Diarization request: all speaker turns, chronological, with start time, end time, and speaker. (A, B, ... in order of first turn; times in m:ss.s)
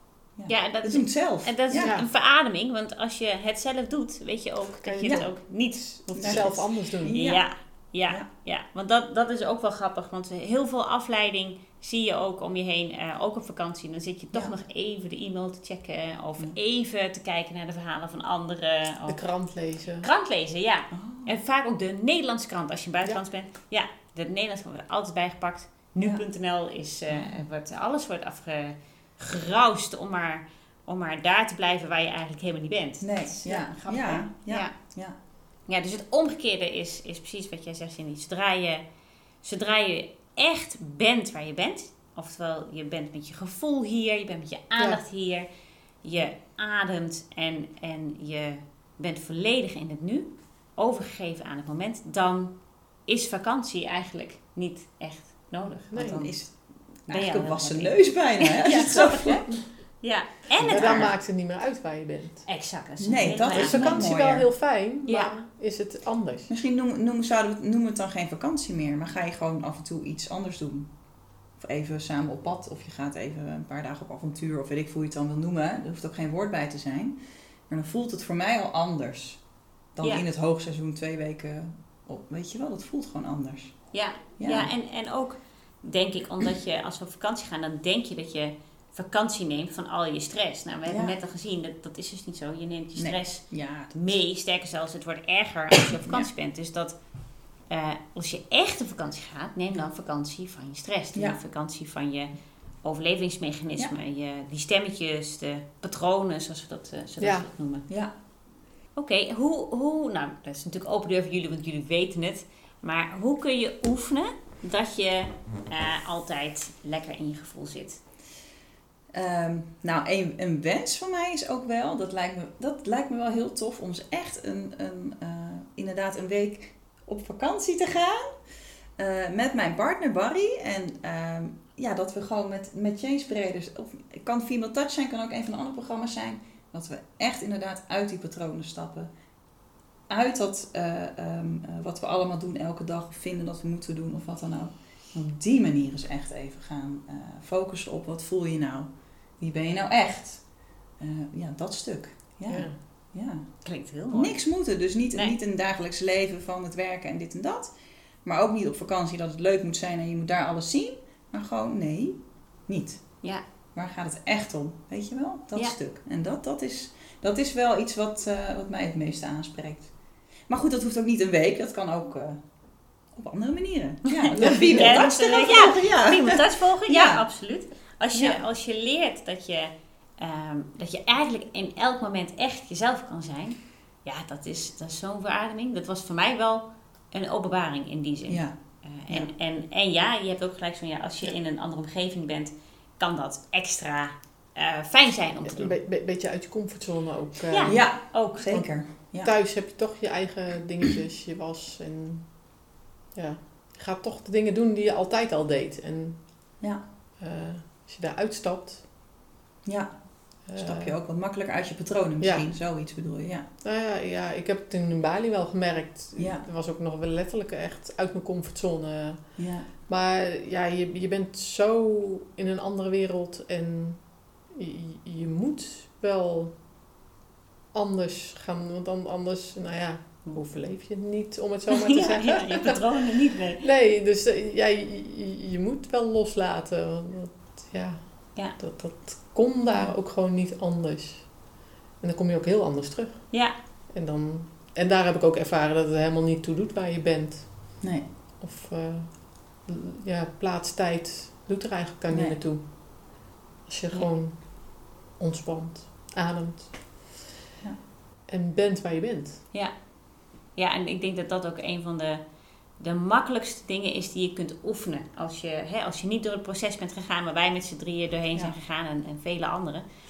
0:00.3-0:01.9 A
0:00.5-0:34.8 B
0:01.8-0:02.1 C
0:04.8-0:07.2 C
0:05.1-0:05.4 A
0:06.2-0:07.5 A
0:19.1-0:20.1 C
0:20.9-0:21.4 A
0:27.1-0:27.4 A
0:33.0-0:35.2 A
0:35.6-0:38.8 B
0:39.4-0:45.5 B
0:44.8-0:45.0 C
0:46.0-0:56.5 B
0:55.9-0:56.3 C
0:55.9-0:59.7 A
0:57.1-1:01.1 B
1:00.6-1:01.1 A
1:00.7-1:02.5 C
1:02.5-1:04.1 B
1:03.0-1:04.5 A
1:03.5-1:06.5 C
1:05.1-1:05.3 B
1:06.5-1:11.0 A
1:11.5-1:24.7 A
1:23.9-1:47.9 B
1:30.9-1:31.2 A
1:33.0-1:33.9 A
1:36.0-1:36.3 A
1:41.2-1:41.4 A
1:47.2-1:47.5 C
1:49.0-1:58.0 B
1:59.1-2:08.2 A
2:09.0-2:19.1 A
2:20.1-2:49.9 A
2:32.5-2:32.8 C
2:33.6-2:34.5 B
2:50.5-2:52.4 A
2:53.1-2:57.3 A
2:54.1-3:15.8 B
2:54.4-2:54.8 C
2:58.1-2:58.4 A
3:08.3-3:09.3 A
3:15.4-3:17.8 C
3:17.5-3:18.6 B
3:17.7-3:19.3 A
3:19.2-3:26.6 C
3:27.2-3:28.9 C
3:29.6-3:33.4 A
3:30.5-3:31.0 C
3:32.2-3:32.5 C
3:33.6-3:46.6 C
3:36.2-3:36.4 A
3:39.4-3:39.8 A
3:47.7-3:52.8 C
3:51.7-3:53.6 B
3:53.6-4:01.4 C
4:02.0-4:17.2 C
4:07.8-4:08.1 A
4:12.1-4:12.4 A
4:18.3-4:19.4 C
4:19.5-4:29.9 B